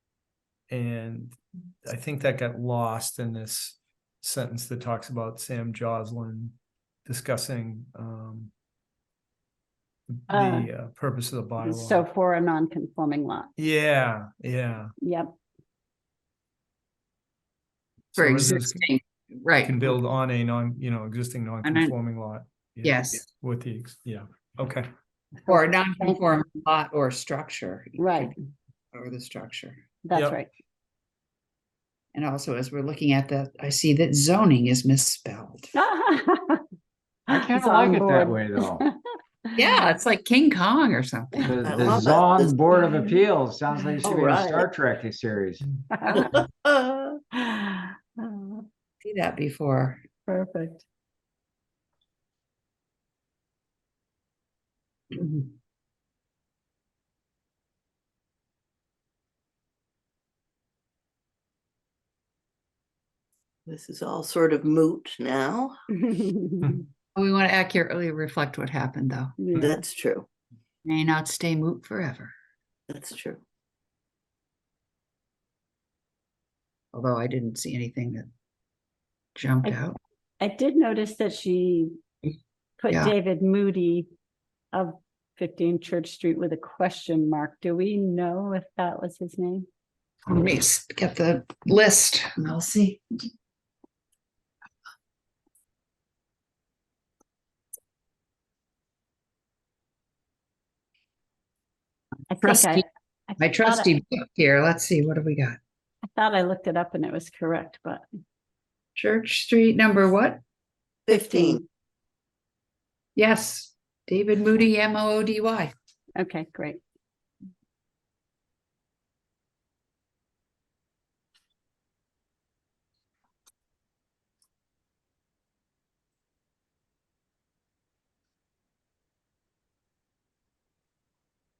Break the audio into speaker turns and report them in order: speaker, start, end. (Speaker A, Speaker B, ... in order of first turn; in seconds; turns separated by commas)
Speaker A: 0.7-8.5, Speaker A: 10.1-12.0, Speaker B: 10.3-10.7, Speaker B: 11.6-13.5, Speaker A: 13.6-14.9, Speaker B: 15.0-15.3, Speaker A: 18.2-18.9, Speaker C: 18.2-19.9, Speaker A: 19.6-24.9, Speaker C: 21.6-22.0, Speaker C: 22.8-23.3, Speaker C: 25.5-28.3, Speaker B: 25.5-26.2, Speaker B: 28.0-28.3, Speaker C: 28.9-29.8, Speaker B: 30.0-30.5, Speaker A: 30.1-30.4, Speaker C: 32.1-35.8, Speaker B: 35.8-36.6, Speaker D: 37.3-38.9, Speaker B: 37.3-39.0, Speaker C: 37.4-37.9, Speaker C: 39.6-42.0, Speaker D: 41.4-45.7, Speaker E: 41.6-42.6, Speaker E: 44.0-44.7, Speaker B: 45.9-46.3, Speaker E: 46.1-47.2, Speaker B: 47.4-48.7, Speaker C: 49.0-50.0, Speaker B: 50.3-50.9, Speaker C: 55.2-55.5, Speaker E: 63.7-65.8, Speaker B: 66.0-66.8, Speaker C: 67.2-69.3, Speaker B: 69.4-69.8, Speaker E: 69.6-70.3, Speaker C: 70.8-72.3, Speaker E: 72.9-73.4, Speaker C: 76.9-78.3, Speaker C: 79.4-80.0, Speaker B: 80.4-82.0, Speaker B: 82.8-84.1, Speaker B: 84.7-89.7, Speaker C: 90.3-93.0, Speaker B: 102.3-103.9, Speaker C: 102.4-102.8, Speaker C: 103.4-105.6, Speaker B: 106.1-108.1, Speaker C: 109.0-110.4, Speaker E: 111.1-111.6, Speaker B: 111.1-111.7, Speaker C: 113.2-115.7, Speaker B: 116.2-116.8